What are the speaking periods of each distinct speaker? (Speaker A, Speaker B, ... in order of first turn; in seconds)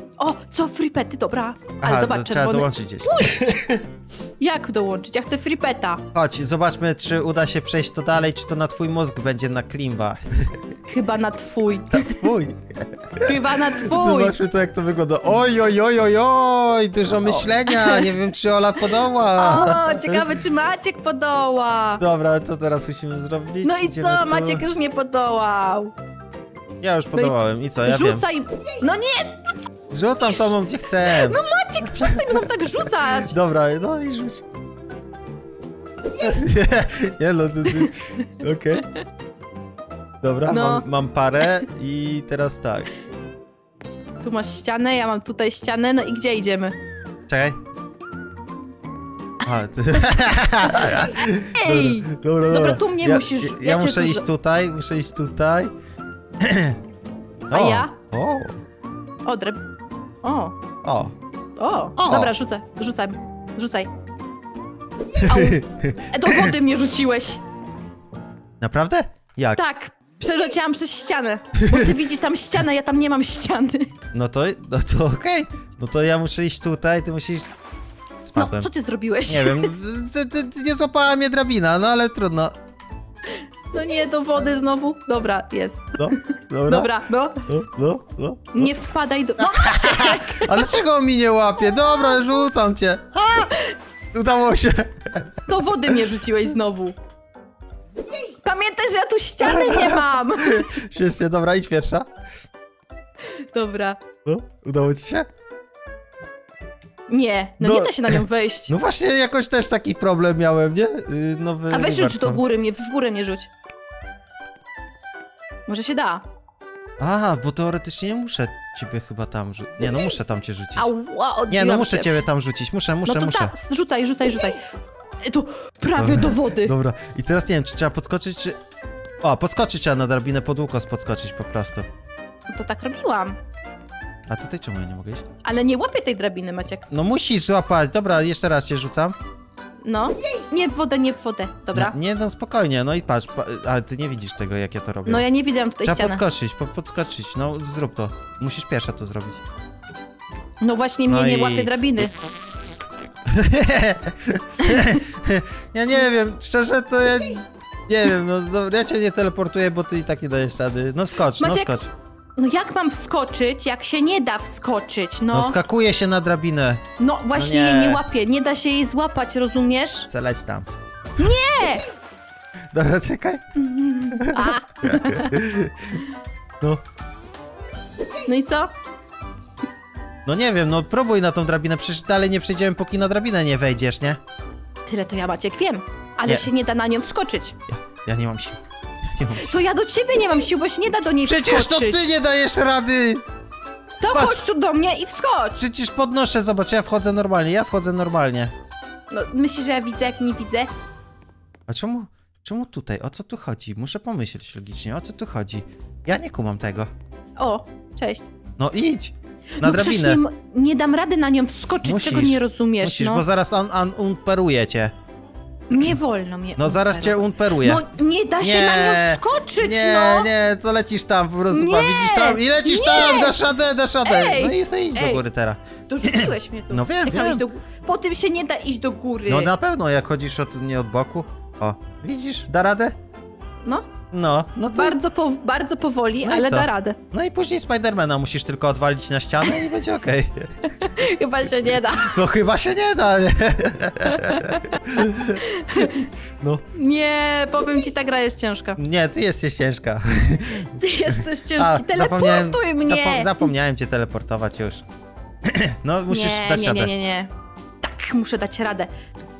Speaker A: 0.2-3.7, 4.4-6.0, 10.9-12.3, 13.2-14.3, 17.2-18.1, 19.4-22.0, 23.6-25.9, 27.1-29.6, 30.2-30.5, 31.1-33.3, 40.5-40.9, 44.2-46.7, 51.5-54.2, 57.5-57.9, 59.2-59.6, 60.2-60.5, 61.6-63.9, 65.2-67.4, 69.5-73.9, 78.3-79.7, 83.7-87.5, 88.5-90.7, 95.5-96.9, 98.4-100.7, 103.3-104.0, 107.1-108.7, 111.7-113.5, 115.7-116.2, 120.8-122.2, 123.0-124.6, 125.2-126.7, 132.5-133.4, 135.4-136.8, 139.8-141.9, 145.1-146.2, 150.6-152.1, 154.6-155.0, 161.4-161.8, 162.4-165.6, 167.0-170.1, 171.2-171.8, 173.6-175.4, 178.2-178.7, 184.8-187.6, 189.4-192.0, 194.0-195.6, 199.1-200.7, 207.4-208.3, 209.6-213.2, 215.7-220.3, 221.5-223.4, 224.0-225.2, 225.9-229.5, 234.7-237.0, 240.7-242.2, 244.1-244.8, 245.4-246.1, 246.7-248.8, 250.8-253.5, 256.1-258.9
Speaker B: 1.8-3.8, 6.1-10.6, 11.9-20.2, 22.0-24.6, 26.8-28.2, 29.9-31.4, 33.3-34.4, 36.2-38.9, 40.2-42.9, 47.3-47.6, 49.4-55.7, 56.4-56.8, 57.5-58.6, 60.8-61.1, 62.0-62.3, 65.2-66.5, 68.6-69.6, 71.5-71.9, 74.1-77.5, 78.2-78.7, 79.3-82.5, 86.0-86.9, 87.5-88.7, 89.4-93.6, 94.1-95.4, 99.4-102.0, 104.2-105.3, 107.6-112.4, 117.0-120.9, 121.5-123.5, 126.0-128.6, 129.2-131.8, 134.3-135.2, 136.9-139.1, 141.7-145.2, 145.8-149.4, 151.1-151.7, 153.3-161.9, 165.3-166.8, 167.3-168.0, 170.1-170.7, 172.7-173.4, 174.1-176.0, 180.2-184.2, 187.7-188.6, 189.1-189.5, 191.2-193.2, 194.1-194.4, 195.6-198.5, 201.7-206.9, 208.6-210.2, 211.8-214.9, 216.6-217.8, 218.4-227.4, 229.2-232.9, 234.1-235.0, 236.2-240.7, 241.9-246.6, 248.8-254.8, 255.4-256.9